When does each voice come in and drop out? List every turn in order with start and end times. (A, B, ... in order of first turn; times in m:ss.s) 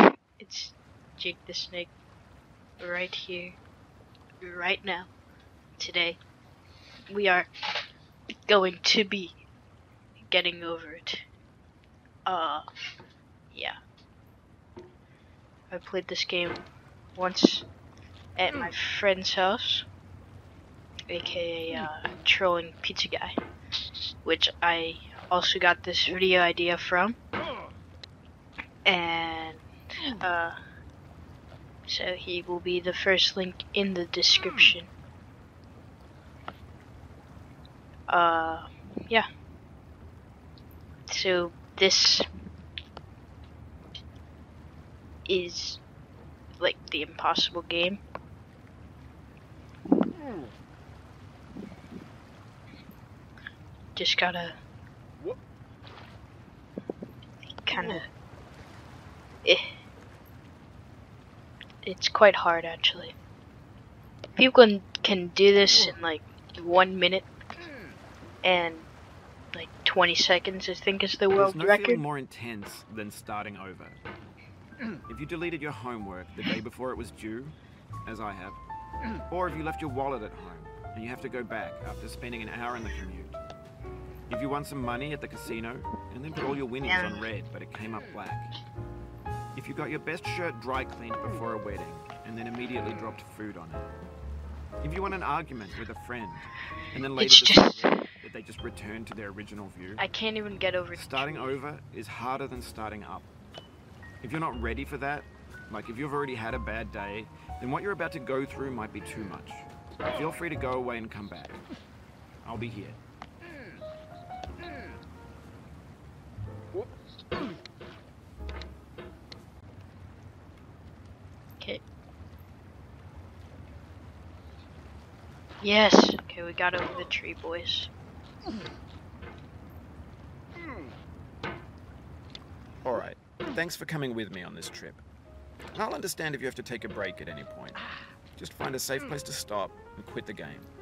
0:00.4-0:01.9 A
0:02.8-0:03.6 A
0:04.4-0:05.1 A
0:05.8-0:06.2 A
0:07.1-0:07.5 A
0:08.5-0:09.4 A
0:10.2-0:11.2 A
0:12.2-0:12.6 A
0:15.7-0:16.6 A
0:17.1-0:17.6 A
0:18.4-0:19.8 A
0:21.1-0:23.3 A
0:24.2-0:27.2 A
0:28.8-0:30.6 A
0:31.8-0:34.9 A
0:38.1-0:39.2 A
0:41.1-0:42.2 A
0:45.2-0:45.8 A
0:46.6-0:48.0 A
0:53.9-0:54.6 A
0:57.6-0:58.0 A
1:01.8-1:03.1 A
1:04.4-1:07.3 A
1:08.4-1:08.9 A
1:09.5-1:12.0 A
1:11.4-1:14.0 B
1:15.1-1:18.6 B
1:19.3-1:23.4 B
1:24.3-1:28.5 B
1:26.8-1:27.3 A
1:29.5-1:33.9 B
1:34.8-1:40.0 B
1:37.2-1:38.0 A
1:40.0-1:41.6 A
1:40.9-1:43.3 B
1:44.2-1:51.6 B
1:52.4-1:53.0 B
2:05.6-2:07.9 A
2:12.8-2:15.0 B
2:15.7-2:20.7 B